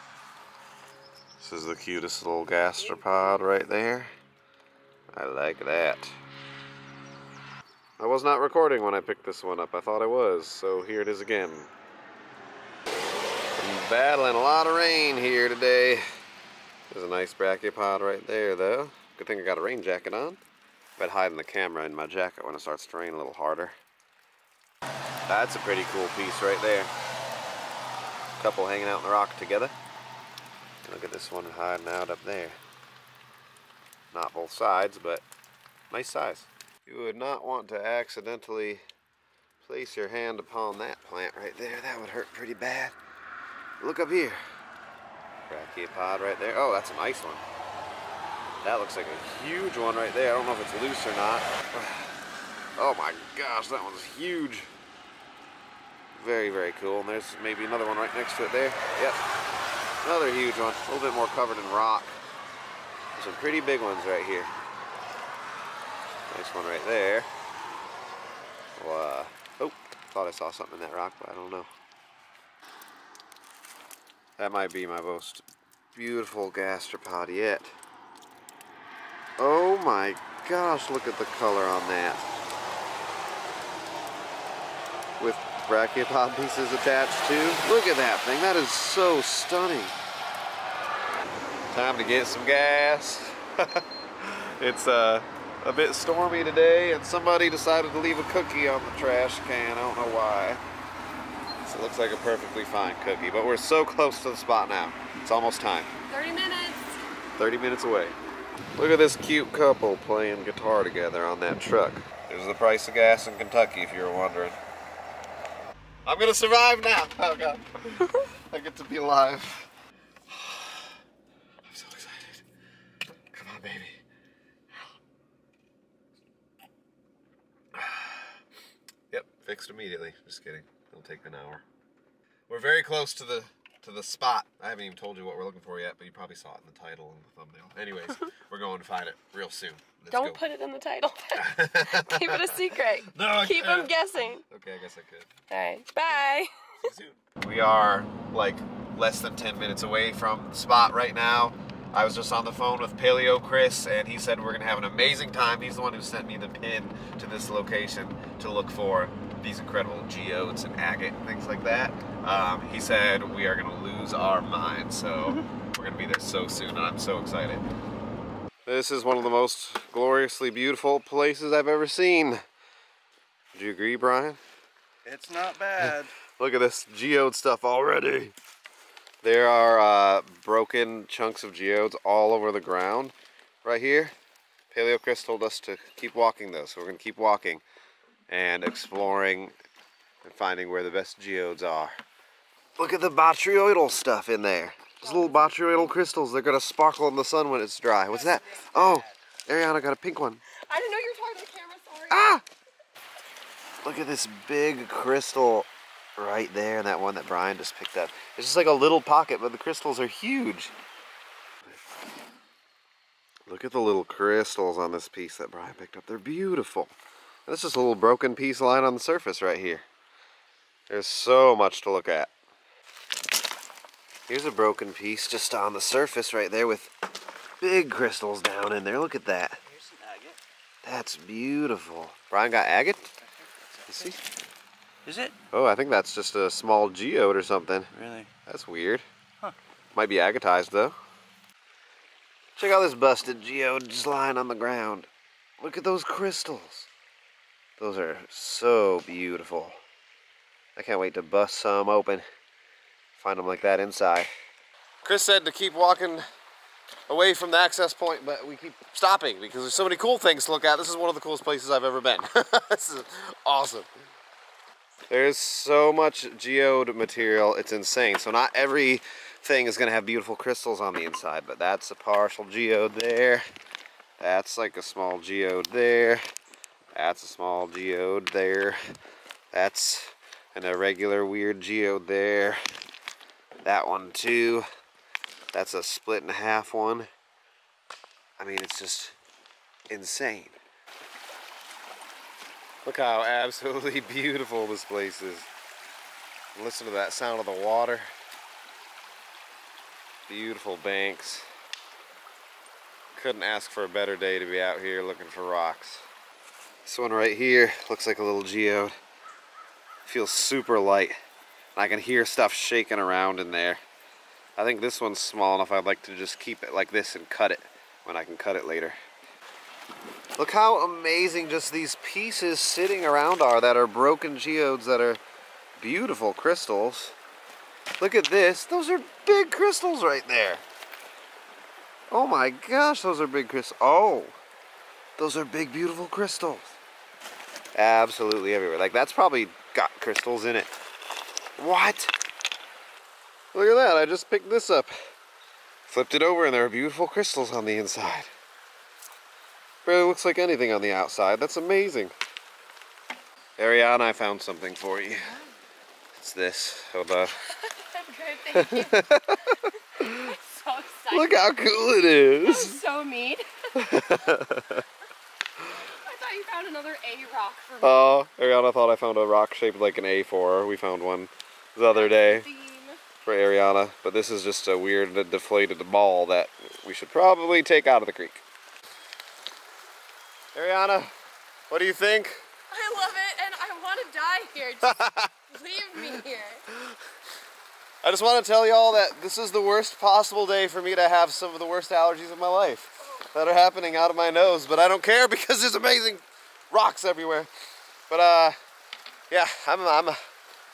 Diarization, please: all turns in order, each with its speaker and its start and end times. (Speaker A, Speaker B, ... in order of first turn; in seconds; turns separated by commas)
Speaker A: 1.4-4.1, Speaker B: 2.9-3.4, Speaker A: 5.1-6.2, Speaker A: 8.0-11.7, Speaker A: 13.6-16.0, Speaker A: 16.9-20.4, Speaker A: 21.0-23.8, Speaker A: 25.3-26.9, Speaker A: 28.4-29.8, Speaker A: 30.8-32.6, Speaker A: 34.1-35.2, Speaker A: 35.9-38.8, Speaker A: 39.6-43.0, Speaker A: 43.8-44.4, Speaker A: 45.5-47.4, Speaker A: 48.6-52.1, Speaker A: 52.8-54.7, Speaker A: 56.1-59.2, Speaker A: 60.0-62.2, Speaker A: 63.2-64.5, Speaker A: 66.3-67.3, Speaker A: 68.8-71.7, Speaker A: 74.4-75.4, Speaker A: 76.0-77.7, Speaker A: 79.4-82.2, Speaker A: 85.2-90.0, Speaker A: 91.7-100.6, Speaker A: 101.7-105.9, Speaker B: 106.1-107.0, Speaker A: 107.4-108.2, Speaker A: 108.8-114.6, Speaker A: 116.1-119.7, Speaker A: 120.3-121.0, Speaker A: 121.7-122.4, Speaker A: 123.3-124.0, Speaker A: 127.8-128.3, Speaker A: 129.1-131.6, Speaker A: 132.5-140.4, Speaker B: 140.1-144.4, Speaker A: 141.4-143.9, Speaker A: 144.5-145.3, Speaker B: 145.5-146.7, Speaker A: 146.8-167.6, Speaker A: 168.7-172.4, Speaker A: 173.5-174.4, Speaker C: 175.1-176.1, Speaker A: 175.8-178.3, Speaker A: 179.2-184.1, Speaker A: 184.7-187.6, Speaker A: 188.3-189.6, Speaker A: 190.2-192.0, Speaker A: 192.8-200.4, Speaker B: 195.0-195.9, Speaker C: 198.2-199.2, Speaker B: 200.5-202.3, Speaker A: 202.1-202.4, Speaker A: 203.8-210.7, Speaker A: 213.5-216.9, Speaker A: 217.5-219.9, Speaker A: 220.9-222.3, Speaker A: 224.3-226.9, Speaker A: 227.6-229.6, Speaker C: 229.7-230.4, Speaker A: 230.8-233.1, Speaker C: 233.2-234.2, Speaker A: 233.9-234.2, Speaker C: 235.1-235.4, Speaker A: 235.5-237.9, Speaker C: 237.9-238.3, Speaker A: 238.5-239.0, Speaker A: 239.9-241.0, Speaker A: 242.6-245.1, Speaker A: 245.6-246.9, Speaker A: 247.8-249.8, Speaker A: 250.8-252.2, Speaker A: 253.2-254.3, Speaker A: 255.0-256.2, Speaker A: 257.1-263.9, Speaker A: 265.1-273.4, Speaker A: 274.2-276.2, Speaker A: 276.9-278.8, Speaker A: 279.5-282.6, Speaker A: 283.6-284.6, Speaker A: 285.5-287.1, Speaker A: 288.4-289.1, Speaker A: 289.9-290.6, Speaker A: 292.9-295.5, Speaker A: 296.6-298.1, Speaker A: 300.3-301.5, Speaker A: 303.1-306.1, Speaker A: 306.9-308.9, Speaker A: 310.1-311.2, Speaker A: 311.8-313.8, Speaker A: 314.6-319.0, Speaker A: 320.4-325.2, Speaker A: 325.8-327.2, Speaker A: 328.0-330.6, Speaker A: 332.1-334.4, Speaker A: 335.2-336.8, Speaker A: 337.8-340.7, Speaker A: 341.6-342.1, Speaker A: 343.5-344.9, Speaker A: 345.9-348.3, Speaker A: 349.9-352.1, Speaker A: 353.6-355.3, Speaker B: 355.2-355.5, Speaker A: 356.2-357.4, Speaker B: 357.5-361.6, Speaker A: 358.6-360.3, Speaker A: 361.1-362.8, Speaker B: 362.4-363.5, Speaker A: 363.8-364.9, Speaker B: 365.8-368.1, Speaker A: 367.8-372.5, Speaker B: 371.9-373.0, Speaker A: 373.2-378.4, Speaker A: 380.5-381.1, Speaker A: 381.7-382.4, Speaker B: 382.7-386.6, Speaker A: 384.8-385.3, Speaker A: 388.0-397.5, Speaker A: 398.1-398.6, Speaker A: 399.3-400.2